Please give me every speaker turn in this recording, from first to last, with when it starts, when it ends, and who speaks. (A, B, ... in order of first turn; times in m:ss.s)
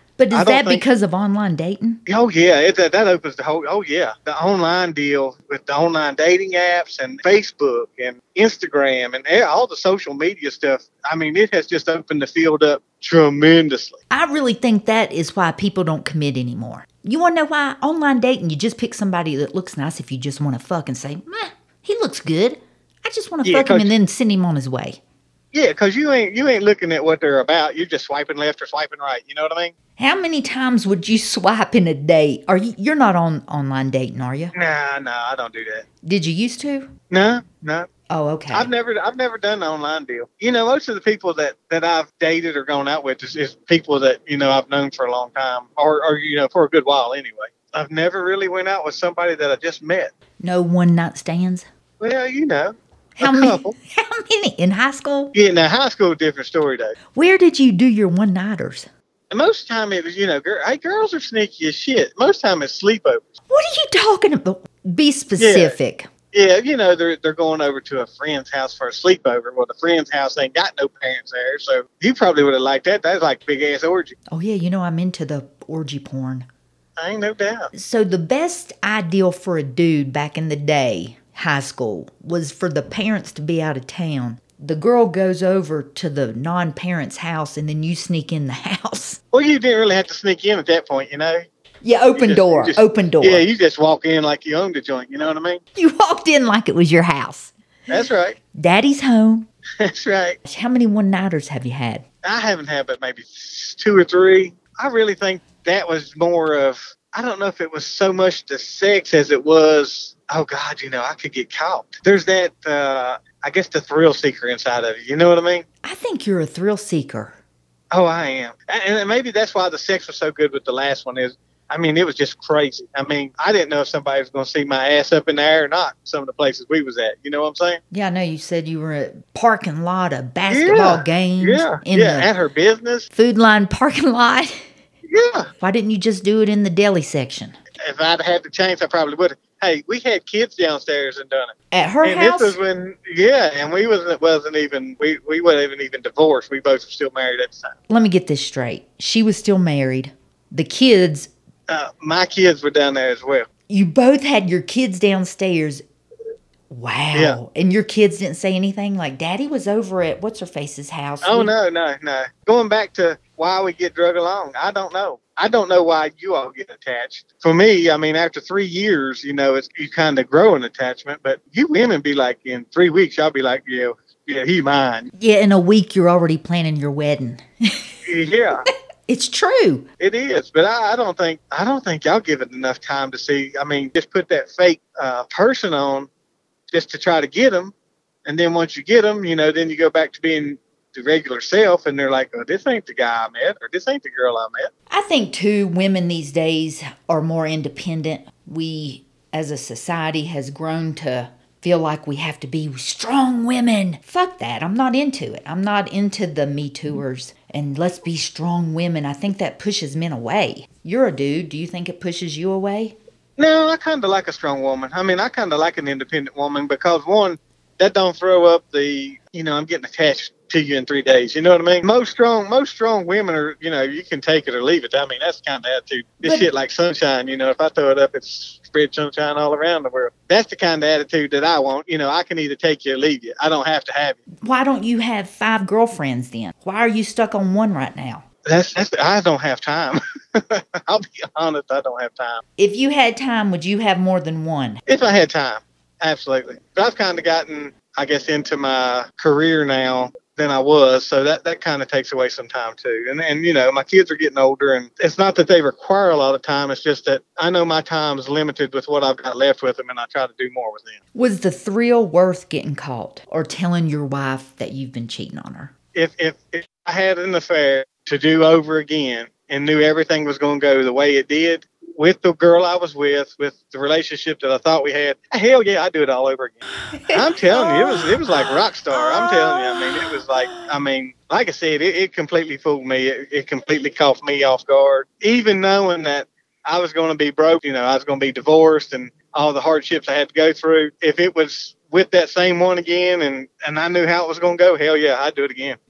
0:00.2-0:02.0 A
0:00.3-0:00.8 B
0:02.1-0:14.0 B
0:14.1-0:25.0 A
0:23.4-0:23.9 B
0:25.5-0:29.7 B
0:30.0-0:34.5 A
0:34.6-0:35.8 B
0:36.0-0:36.9 A
0:37.1-0:37.9 B
0:38.1-0:38.7 A
0:38.5-0:50.1 B
0:50.4-0:51.7 A
0:52.0-0:53.8 B
0:53.2-0:55.3 A
0:55.3-0:57.0 B
0:57.1-0:58.9 A
0:59.3-1:03.3 B
1:03.5-1:06.1 A
1:05.4-1:05.8 B
1:06.3-1:14.2 B
1:14.3-1:16.5 A
1:17.0-1:17.7 B
1:17.7-1:29.2 A
1:29.3-1:31.5 B
1:31.8-1:33.4 A
1:32.2-1:35.6 B
1:35.8-1:37.5 A
1:37.9-1:38.4 B
1:38.6-1:39.5 A
1:39.8-1:40.4 B
1:40.5-1:42.0 A
1:42.2-1:55.6 B
1:55.8-1:57.4 A
1:57.9-2:07.8 B
2:07.9-2:12.3 A
2:10.5-2:13.1 B
2:13.1-2:14.6 A
2:15.1-2:15.5 B
2:15.6-2:17.6 A
2:17.8-2:27.7 B
2:21.7-2:22.6 A
2:27.9-2:31.3 A
2:31.7-2:33.5 B
2:33.7-2:35.8 A
2:36.7-2:41.5 A
2:41.2-2:55.1 B
2:55.2-2:57.8 A
2:58.1-2:58.7 B
2:59.1-2:59.9 A
3:00.0-3:06.1 B
3:06.7-3:07.7 B
3:08.3-3:14.7 B
3:14.9-3:33.0 A
3:33.4-3:54.2 B
3:46.2-3:46.5 A
3:54.4-3:58.2 A
3:58.5-4:02.4 B
4:02.6-4:04.8 A
4:04.9-4:21.0 B
4:21.1-4:25.7 A
4:26.0-4:55.8 B
4:37.5-4:40.7 A